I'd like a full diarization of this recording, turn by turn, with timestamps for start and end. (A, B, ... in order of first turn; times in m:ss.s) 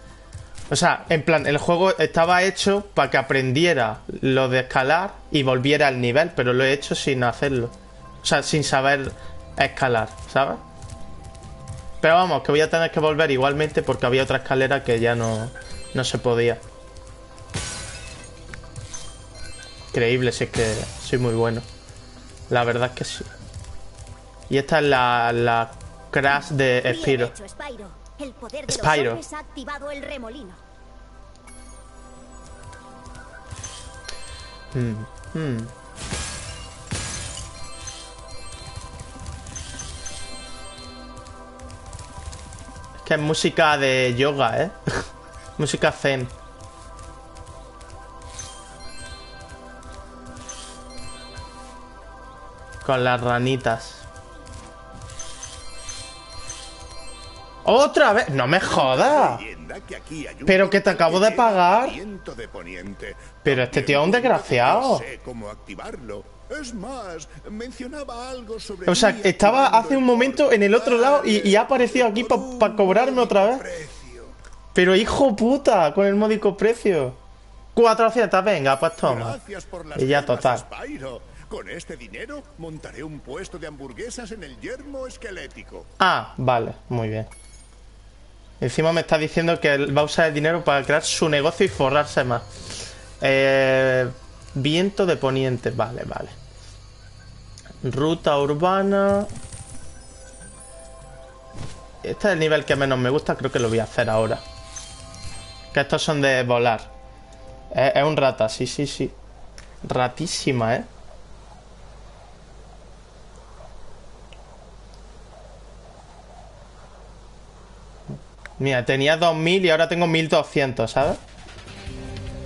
0:00.7-0:10.6 A
0:12.0-0:16.6 A
0:19.9-0:21.7 A
0:22.5-0:23.3 A
0:24.5-0:27.3 A
0:26.8-0:30.6 B
0:28.7-0:29.2 A
0:34.7-0:35.7 A
0:43.0-0:46.3 A
0:52.8-0:54.0 A
0:57.6-0:59.4 A
0:58.6-1:14.3 C
1:00.4-1:02.0 A
1:03.4-1:05.0 A
1:08.8-1:13.6 A
1:14.7-1:17.2 A
1:17.7-1:19.4 A
1:19.0-1:25.9 C
1:19.9-1:20.6 A
1:26.0-1:27.3 A
1:28.6-1:32.4 A
1:33.2-1:36.3 A
1:37.8-1:39.3 A
1:42.0-1:44.4 A
1:45.7-1:46.9 A
1:47.7-1:49.1 A
1:49.8-1:50.9 A
1:58.6-2:01.2 A